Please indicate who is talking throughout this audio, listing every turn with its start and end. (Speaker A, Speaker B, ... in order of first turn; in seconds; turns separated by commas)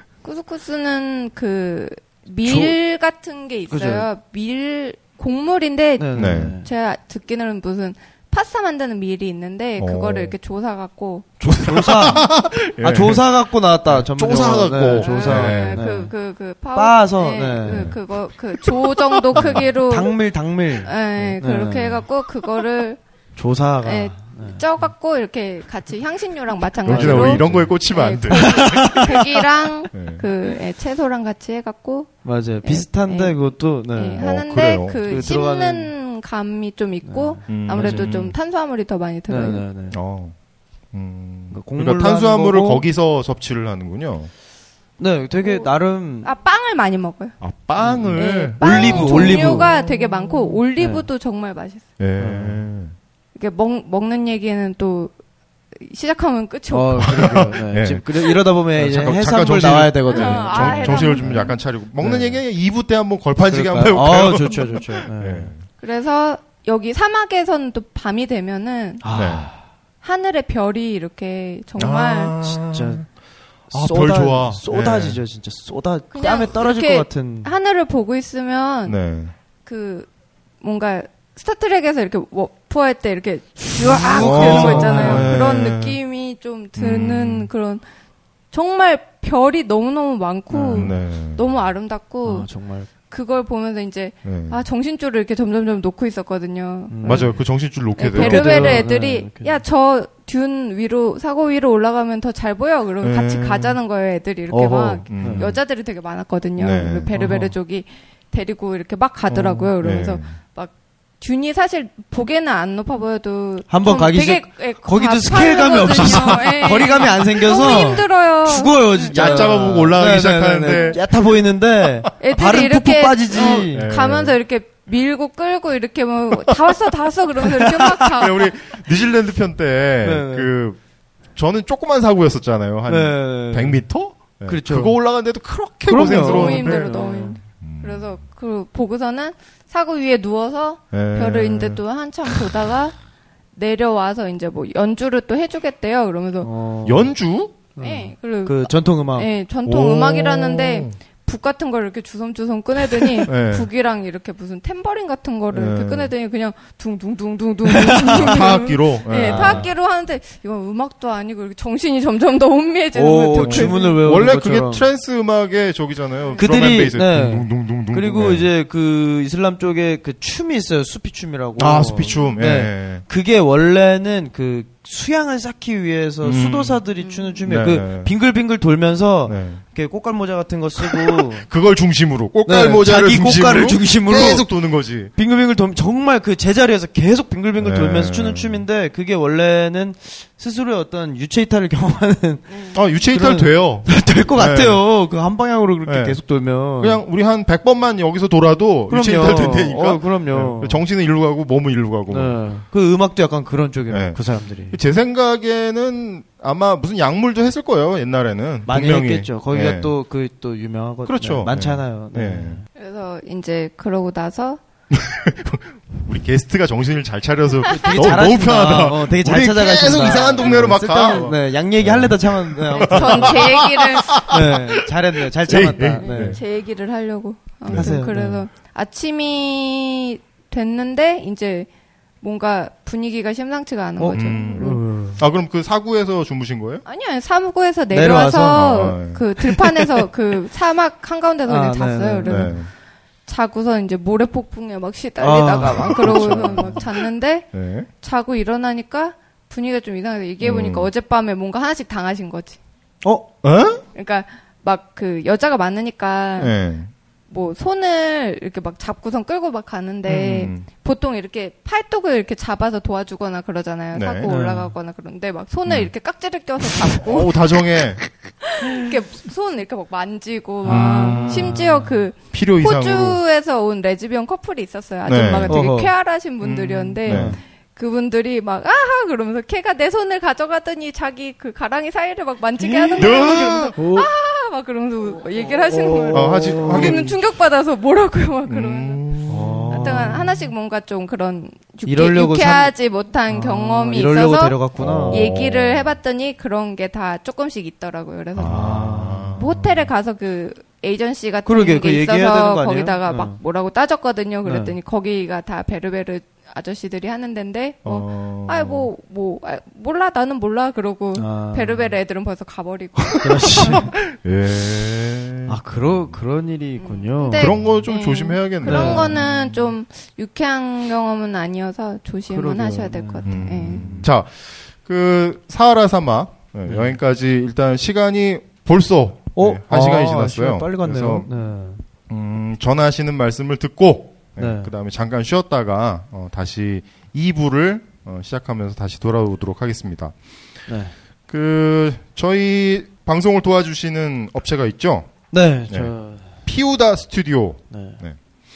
Speaker A: 0.2-11.3, Speaker B: 2.4-2.7, Speaker B: 3.7-4.1, Speaker B: 6.0-6.7, Speaker C: 6.1-6.6, Speaker C: 9.8-10.3, Speaker C: 11.4-13.2, Speaker B: 11.6-16.1, Speaker C: 13.9-15.8, Speaker A: 15.0-20.1, Speaker B: 16.7-17.9, Speaker C: 17.6-18.1, Speaker C: 18.6-19.7, Speaker B: 19.4-22.1, Speaker A: 20.8-23.0, Speaker B: 23.4-24.6, Speaker A: 23.8-32.1, Speaker C: 26.8-29.3, Speaker B: 26.9-27.7, Speaker B: 28.3-29.1, Speaker C: 29.9-30.2, Speaker B: 32.2-34.3, Speaker A: 32.6-33.4, Speaker A: 33.9-39.6, Speaker C: 34.2-35.4, Speaker B: 35.0-35.9, Speaker B: 37.0-38.1, Speaker C: 37.5-38.4, Speaker B: 39.3-40.0, Speaker C: 39.9-40.3, Speaker C: 40.9-44.3, Speaker B: 41.5-42.8, Speaker B: 45.0-46.3, Speaker A: 46.2-47.4, Speaker C: 47.4-50.6, Speaker B: 47.8-49.7, Speaker A: 48.1-51.8, Speaker B: 50.8-51.0, Speaker C: 52.0-52.9, Speaker B: 52.2-52.6, Speaker A: 53.4-55.1, Speaker A: 55.8-57.1, Speaker B: 56.7-62.4, Speaker C: 57.0-65.6, Speaker A: 60.1-61.5, Speaker B: 63.5-65.5, Speaker A: 65.8-69.0, Speaker B: 69.0-69.6, Speaker C: 69.1-69.5, Speaker A: 70.0-72.4, Speaker C: 71.8-73.1, Speaker B: 72.4-73.0, Speaker C: 73.7-75.2, Speaker B: 73.7-77.5, Speaker A: 76.1-79.0, Speaker C: 78.8-79.3, Speaker A: 79.6-80.1, Speaker A: 80.6-87.8, Speaker B: 83.7-85.4, Speaker C: 84.1-86.0, Speaker C: 86.8-87.5, Speaker A: 88.5-92.5, Speaker B: 90.5-90.9, Speaker C: 90.7-91.4, Speaker B: 92.2-92.9, Speaker A: 93.0-97.4, Speaker C: 94.2-94.6, Speaker B: 96.9-97.4, Speaker C: 97.0-98.8, Speaker A: 98.0-119.6, Speaker B: 98.1-99.6, Speaker C: 103.0-103.8, Speaker B: 104.5-105.5, Speaker C: 105.1-105.6, Speaker C: 106.6-107.1, Speaker B: 107.1-107.5, Speaker C: 109.3-110.3, Speaker B: 113.7-123.9, Speaker C: 119.1-121.3, Speaker A: 122.2-128.5, Speaker C: 123.3-124.4, Speaker B: 127.4-128.2, Speaker C: 128.1-130.8, Speaker B: 130.0-130.5, Speaker C: 131.3-136.9, Speaker B: 132.9-133.8, Speaker B: 134.4-135.0, Speaker B: 135.8-137.4, Speaker A: 135.9-142.9, Speaker C: 137.6-138.2, Speaker C: 140.9-142.6, Speaker A: 143.5-146.5, Speaker B: 146.4-147.1, Speaker C: 146.8-147.7, Speaker B: 147.8-149.3, Speaker A: 147.8-164.0, Speaker C: 149.6-150.9, Speaker C: 153.2-153.7, Speaker C: 155.5-156.1, Speaker B: 157.7-158.4, Speaker C: 158.1-159.7, Speaker B: 159.1-159.7, Speaker B: 162.9-164.9, Speaker C: 163.4-168.5, Speaker B: 166.4-181.4, Speaker C: 171.6-173.0, Speaker C: 176.2-176.8, Speaker A: 177.0-177.3, Speaker C: 177.4-178.1, Speaker C: 179.2-179.6, Speaker C: 180.8-185.1, Speaker B: 182.4-184.5, Speaker B: 185.1-197.0, Speaker C: 187.6-188.6, Speaker C: 192.7-194.8, Speaker C: 195.8-196.2, Speaker C: 196.8-202.4, Speaker B: 198.9-200.8, Speaker B: 202.1-204.8, Speaker C: 203.9-209.9, Speaker B: 208.7-212.6, Speaker C: 211.0-212.6, Speaker A: 212.8-214.6, Speaker C: 214.9-224.8, Speaker B: 217.6-223.6, Speaker A: 222.7-224.3, Speaker B: 224.2-226.4, Speaker C: 225.4-226.4, Speaker A: 226.0-231.7, Speaker C: 227.7-228.0, Speaker B: 227.7-228.4, Speaker A: 232.2-234.8, Speaker B: 234.0-235.2, Speaker C: 234.1-236.8, Speaker A: 236.8-242.5, Speaker B: 237.9-238.8, Speaker C: 238.4-239.5, Speaker B: 241.4-242.5, Speaker C: 242.2-242.7, Speaker A: 243.2-247.5, Speaker B: 245.2-246.7, Speaker C: 245.6-246.8, Speaker C: 247.5-247.9, Speaker A: 248.0-252.6, Speaker C: 250.4-250.9, Speaker B: 253.0-253.3, Speaker C: 253.4-253.8, Speaker A: 253.9-256.5, Speaker C: 256.4-256.9, Speaker A: 257.3-267.6, Speaker C: 260.1-260.6, Speaker C: 263.9-264.3, Speaker B: 264.2-264.7, Speaker C: 265.6-265.9, Speaker C: 267.0-268.0, Speaker A: 268.4-289.0, Speaker B: 270.6-272.0, Speaker C: 270.6-271.6, Speaker C: 272.3-273.2, Speaker C: 275.0-275.6, Speaker B: 275.5-275.9, Speaker C: 276.4-277.4, Speaker B: 277.0-277.4, Speaker B: 282.6-284.1, Speaker C: 283.0-283.8, Speaker B: 285.6-287.1, Speaker C: 286.1-287.1, Speaker C: 288.4-290.2, Speaker B: 289.3-290.3, Speaker A: 289.7-294.6, Speaker B: 291.9-292.7, Speaker B: 293.3-295.3, Speaker C: 294.8-296.0, Speaker A: 295.1-298.8, Speaker C: 298.3-299.9, Speaker B: 298.4-299.4, Speaker A: 299.4-313.8, Speaker B: 301.4-303.4, Speaker B: 304.4-304.8, Speaker C: 307.8-308.9, Speaker B: 311.1-311.9, Speaker B: 313.2-313.9, Speaker C: 313.2-316.1, Speaker B: 315.5-317.7, Speaker A: 316.8-323.9, Speaker C: 317.4-319.7, Speaker B: 318.6-319.2, Speaker B: 322.3-324.1, Speaker C: 323.2-331.3, Speaker B: 326.6-327.0, Speaker B: 329.4-331.8, Speaker C: 332.1-340.1, Speaker B: 334.4-334.7, Speaker B: 340.7-340.9, Speaker C: 341.3-345.1, Speaker B: 345.3-346.3, Speaker C: 345.7-345.9, Speaker C: 346.4-348.2, Speaker B: 347.7-348.0